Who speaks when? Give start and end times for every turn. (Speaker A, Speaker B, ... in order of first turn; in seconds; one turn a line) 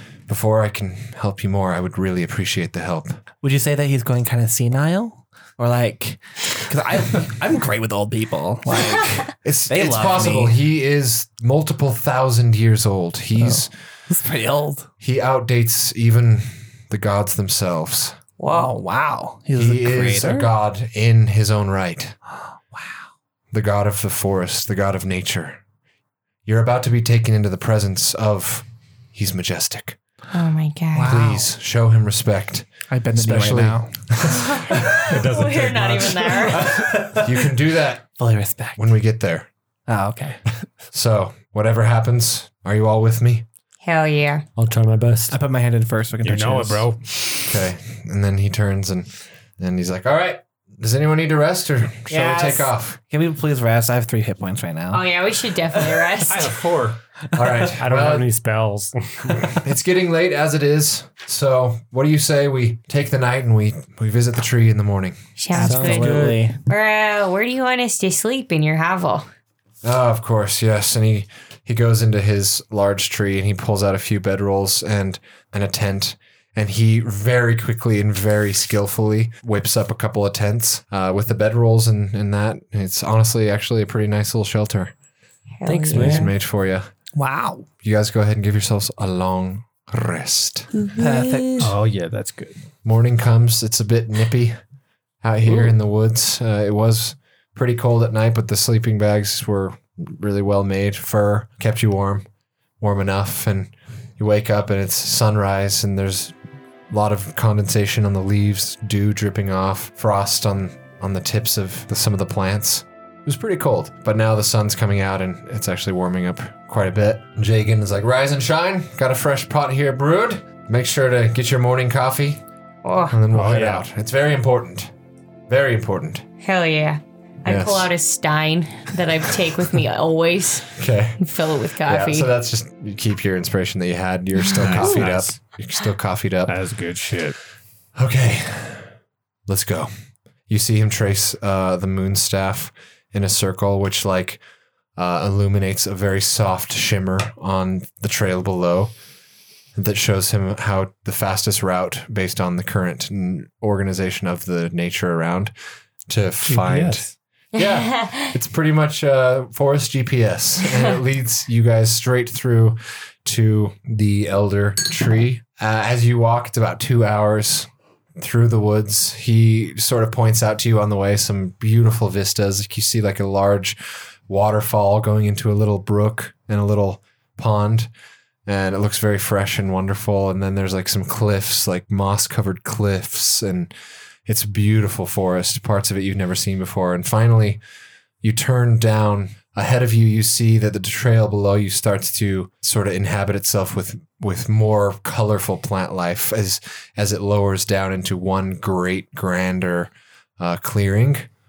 Speaker A: 0.3-3.2
Speaker B: 3.4-10.6
Speaker A: 9.4-13.7
Speaker B: 13.4-14.9
Speaker A: 15.0-18.2
Speaker C: 18.4-18.7
Speaker B: 18.5-20.5
Speaker A: 19.5-22.1
Speaker B: 22.7-23.0
Speaker A: 23.5-25.6
Speaker A: 26.4-30.0
Speaker C: 30.3-31.2
Speaker B: 30.9-31.4
Speaker A: 31.0-34.5
Speaker B: 32.9-34.9
Speaker C: 34.3-36.7
Speaker D: 35.1-36.5
Speaker E: 35.1-36.1
Speaker B: 36.5-37.5
Speaker A: 37.1-38.1
Speaker B: 38.2-38.8
Speaker A: 38.8-39.5
Speaker B: 39.9-40.4
Speaker A: 40.9-43.4
Speaker C: 43.8-44.4
Speaker D: 44.5-45.4
Speaker B: 45.3-46.9
Speaker E: 46.2-47.4
Speaker A: 47.4-49.1
Speaker A: 49.6-53.0
Speaker B: 52.1-55.0
Speaker C: 54.9-56.6
Speaker E: 56.3-57.0
Speaker A: 57.3-58.3
Speaker D: 57.8-59.5
Speaker A: 59.4-65.2
Speaker C: 65.4-69.3
Speaker B: 65.5-66.6
Speaker D: 65.5-66.4
Speaker A: 69.8-84.9
Speaker C: 85.6-86.3
Speaker D: 85.6-86.3
Speaker A: 85.9-86.9
Speaker B: 87.1-87.7
Speaker A: 87.8-90.7
Speaker C: 90.7-91.7
Speaker B: 91.0-91.7
Speaker E: 91.6-92.5
Speaker A: 92.8-94.5
Speaker A: 95.2-102.2
Speaker A: 102.8-106.3
Speaker A: 106.9-122.4
Speaker C: 122.8-123.2
Speaker A: 123.1-124.9
Speaker E: 123.3-123.8
Speaker A: 125.5-126.2
Speaker C: 126.4-132.3
Speaker A: 127.5-127.9
Speaker A: 130.7-131.2
Speaker A: 131.8-136.6
Speaker E: 134.5-135.4
Speaker C: 134.7-135.1
Speaker E: 136.5-137.3
Speaker A: 137.9-138.9
Speaker A: 139.5-139.9
Speaker A: 140.5-144.4
Speaker A: 144.9-148.9
Speaker A: 149.8-155.5
Speaker A: 156.1-177.9
Speaker E: 156.4-157.1
Speaker C: 157.6-158.3
Speaker A: 178.4-183.7
Speaker A: 184.2-187.6
Speaker A: 188.2-201.3